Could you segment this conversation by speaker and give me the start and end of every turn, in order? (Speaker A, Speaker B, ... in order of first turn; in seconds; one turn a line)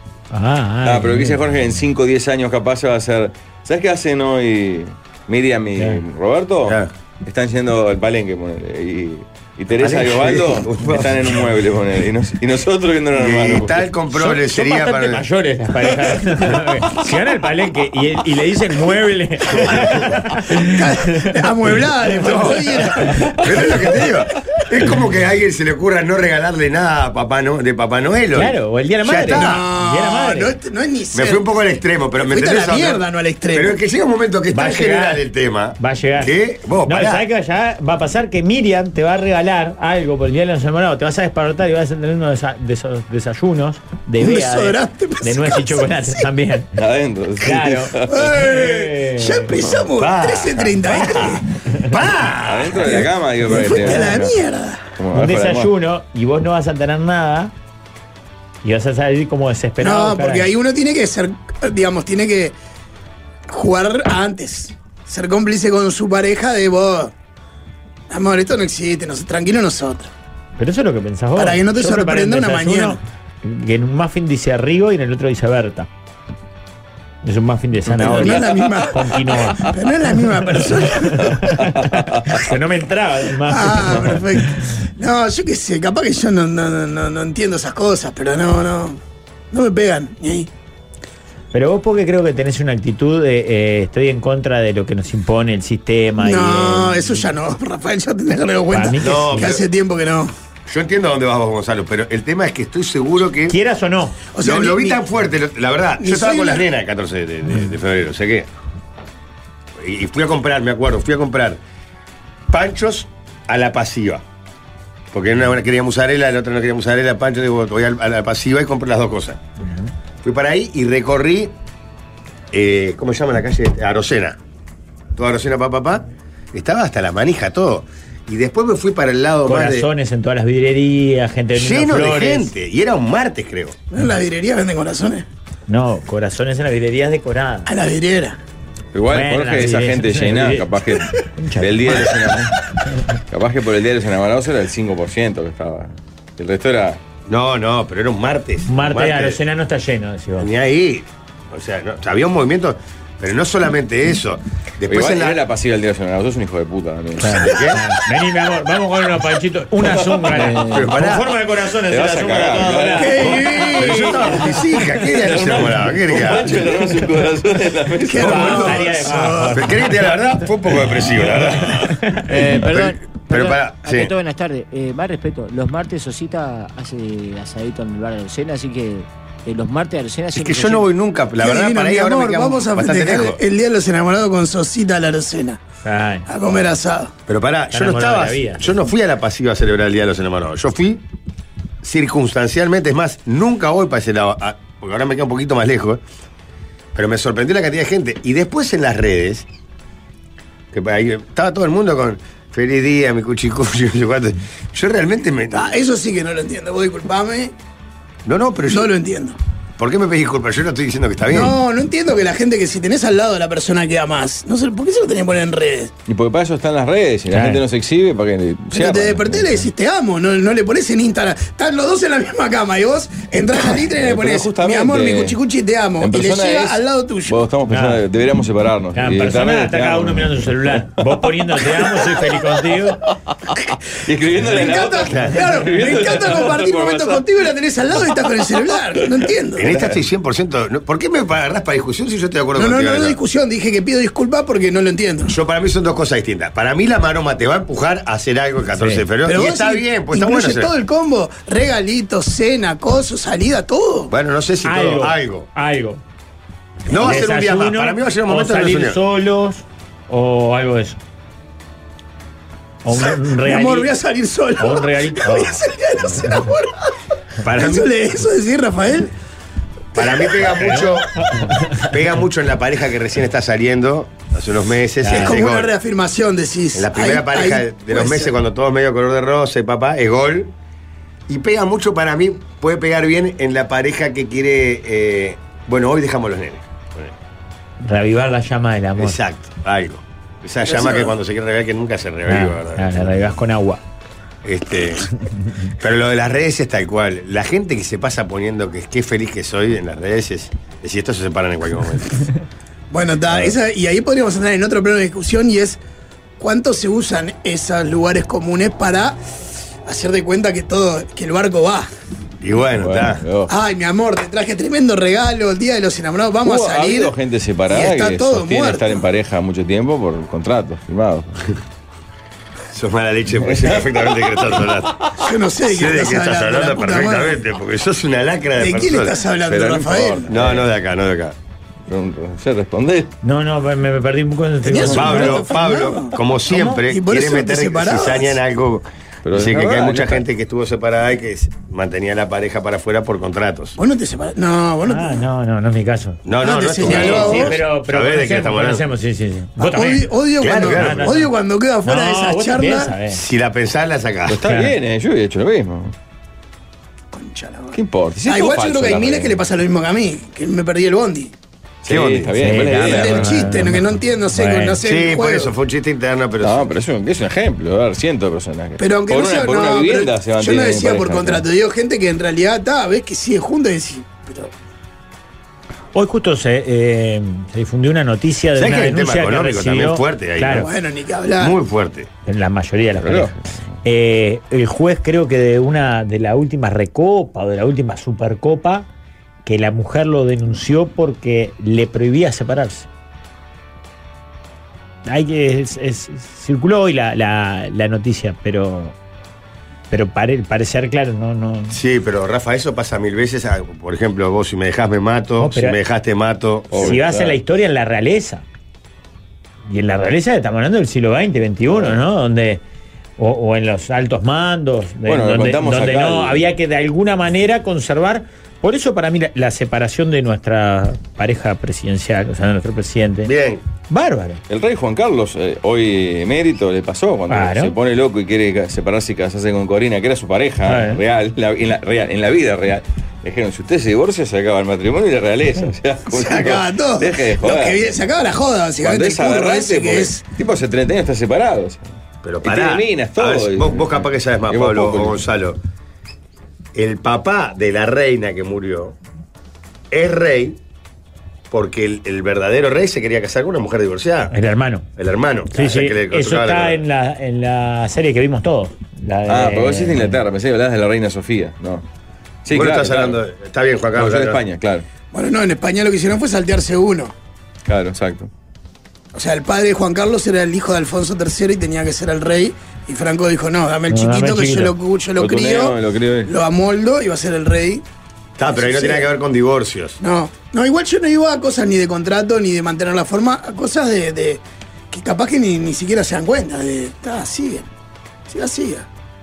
Speaker A: 0.3-1.4
Speaker B: 0.8-13.8
Speaker C: 6.7-6.9
Speaker C: 9.7-11.2
Speaker C: 13.1-15.2
Speaker A: 14.1-21.3
Speaker D: 20.6-24.0
Speaker A: 22.1-23.4
Speaker C: 22.2-22.5
Speaker C: 23.4-29.6
Speaker A: 28.3-30.5
Speaker D: 29.3-31.4
Speaker C: 31.1-37.3
Speaker D: 32.2-33.8
Speaker A: 34.5-35.2
Speaker A: 35.8-46.7
Speaker D: 44.2-46.3
Speaker B: 46.8-48.1
Speaker A: 47.4-49.5
Speaker D: 48.1-51.5
Speaker C: 50.0-52.8
Speaker B: 52.4-54.4
Speaker D: 52.7-54.9
Speaker B: 55.0-55.7
Speaker A: 55.1-57.5
Speaker A: 58.6-60.5
Speaker D: 59.8-62.5
Speaker D: 63.5-67.1
Speaker D: 68.1-70.1
Speaker A: 70.6-75.9
Speaker D: 71.4-73.0
Speaker A: 77.2-79.7
Speaker D: 77.9-81.3
Speaker A: 80.5-84.5
Speaker B: 81.4-82.4
Speaker D: 83.5-89.0
Speaker D: 89.5-90.5
Speaker A: 91.5-97.3
Speaker D: 96.2-100.3
Speaker A: 98.7-99.5
Speaker C: 99.0-99.7
Speaker C: 100.7-103.6
Speaker A: 103.5-104.2
Speaker D: 104.3-105.0
Speaker C: 104.4-108.5
Speaker D: 106.0-106.7
Speaker C: 109.8-111.6
Speaker C: 112.5-114.2
Speaker C: 115.1-119.4
Speaker A: 119.6-119.9
Speaker C: 120.2-121.5
Speaker C: 122.5-124.4
Speaker C: 125.2-129.9
Speaker A: 129.5-132.5
Speaker C: 131.6-133.8
Speaker D: 133.9-135.3
Speaker A: 135.7-137.7
Speaker D: 137.7-138.4
Speaker B: 138.9-142.5
Speaker A: 139.1-140.7
Speaker A: 141.4-142.1
Speaker B: 143.3-147.0
Speaker C: 147.3-149.4
Speaker A: 148.7-150.5
Speaker C: 150.4-155.4
Speaker B: 154.9-157.5
Speaker A: 157.2-163.7
Speaker C: 157.3-157.8
Speaker B: 159.8-160.9
Speaker C: 160.6-161.3
Speaker B: 161.9-168.8
Speaker D: 163.0-164.2
Speaker C: 163.8-166.8
Speaker D: 168.1-169.7
Speaker A: 168.1-170.2
Speaker C: 169.5-171.9
Speaker A: 171.7-172.3
Speaker E: 172.3-180.9
Speaker C: 172.6-174.1
Speaker C: 180.3-183.4
Speaker D: 181.4-185.6
Speaker A: 185.8-186.3
Speaker D: 186.3-187.1
Speaker C: 187.3-191.0
Speaker A: 187.7-188.7
Speaker C: 191.8-196.0
Speaker C: 196.9-199.5
Speaker C: 200.7-205.7
Speaker D: 205.5-207.5
Speaker C: 208.2-208.9
Speaker D: 208.7-209.4
Speaker C: 209.8-211.6
Speaker D: 211.3-215.9
Speaker B: 216.1-219.6
Speaker A: 217.3-217.6
Speaker D: 218.7-227.4
Speaker B: 224.0-225.4
Speaker B: 226.0-230.8
Speaker A: 227.7-228.0
Speaker A: 228.9-233.0
Speaker B: 234.0-237.3
Speaker D: 234.3-239.7
Speaker C: 235.1-235.4
Speaker C: 239.6-243.2
Speaker D: 242.6-245.3
Speaker C: 245.3-250.7
Speaker A: 248.8-249.0
Speaker D: 249.2-254.1
Speaker C: 254.1-255.5
Speaker A: 254.6-256.0
Speaker C: 256.9-259.0
Speaker A: 256.9-261.0
Speaker A: 262.8-263.9
Speaker D: 262.9-266.9
Speaker A: 264.6-265.6
Speaker C: 267.4-267.9
Speaker D: 267.5-269.1
Speaker C: 269.9-271.2
Speaker A: 270.6-271.9
Speaker C: 271.8-275.7
Speaker A: 275.0-275.4
Speaker D: 275.1-278.4
Speaker C: 276.8-280.5
Speaker C: 281.3-287.1
Speaker A: 287.8-289.2
Speaker C: 289.0-293.2
Speaker D: 290.6-291.1
Speaker A: 292.3-293.8
Speaker C: 294.4-295.1
Speaker C: 295.8-302.2
Speaker D: 302.9-305.8
Speaker D: 306.4-309.2
Speaker D: 309.9-311.9
Speaker C: 312.4-313.2
Speaker B: 312.8-313.5
Speaker D: 313.5-317.1
Speaker B: 316.4-321.5
Speaker D: 317.7-319.1
Speaker C: 322.7-325.0
Speaker B: 323.4-323.9
Speaker D: 325.2-327.4
Speaker C: 325.7-329.2
Speaker D: 328.6-330.3
Speaker B: 329.4-330.7
Speaker C: 330.3-331.4
Speaker B: 331.9-333.1
Speaker A: 333.2-335.5
Speaker D: 334.6-336.2
Speaker C: 334.9-343.8
Speaker A: 336.5-336.8
Speaker D: 336.8-338.4
Speaker B: 339.2-340.2
Speaker D: 343.8-345.3
Speaker A: 344.9-351.3
Speaker C: 346.2-348.8
Speaker D: 346.4-347.6
Speaker D: 349.6-352.9
Speaker C: 350.4-351.2
Speaker A: 351.8-353.2
Speaker C: 353.1-354.4
Speaker B: 354.3-355.9
Speaker A: 354.4-354.7
Speaker D: 357.1-361.3
Speaker B: 357.7-359.4
Speaker B: 361.8-363.6
Speaker C: 361.9-362.7
Speaker A: 362.4-364.8
Speaker D: 362.8-365.5
Speaker C: 364.8-366.7
Speaker B: 366.4-371.5
Speaker D: 368.8-374.5
Speaker A: 375.9-380.7
Speaker C: 378.6-380.7
Speaker D: 380.5-381.6
Speaker C: 381.4-382.1
Speaker A: 382.3-388.9
Speaker B: 383.0-383.4
Speaker A: 389.4-392.9
Speaker A: 395.1-398.9
Speaker A: 399.9-401.8
Speaker C: 401.7-407.0
Speaker A: 405.4-405.8
Speaker B: 406.7-407.4
Speaker A: 406.8-408.4
Speaker A: 409.7-412.6
Speaker B: 411.7-412.0
Speaker A: 413.2-423.3
Speaker B: 415.1-416.5
Speaker C: 423.2-423.6
Speaker A: 423.9-424.4
Speaker B: 424.5-437.8
Speaker A: 427.3-427.8
Speaker A: 430.6-431.0
Speaker D: 436.1-440.2
Speaker B: 438.8-441.9
Speaker C: 442.2-445.6
Speaker B: 442.4-445.2
Speaker C: 446.8-449.0
Speaker C: 449.9-450.6
Speaker C: 451.5-454.3
Speaker A: 454.3-454.9
Speaker C: 455.0-456.8
Speaker A: 455.5-460.2
Speaker B: 459.3-461.8
Speaker B: 462.4-463.2
Speaker C: 462.5-464.4
Speaker B: 463.9-464.9
Speaker D: 465.1-467.1
Speaker B: 467.7-468.3
Speaker D: 469.1-477.8
Speaker A: 473.9-474.7
Speaker B: 475.2-476.3
Speaker C: 478.4-480.0
Speaker D: 478.5-479.1
Speaker D: 480.0-487.7
Speaker D: 488.3-488.9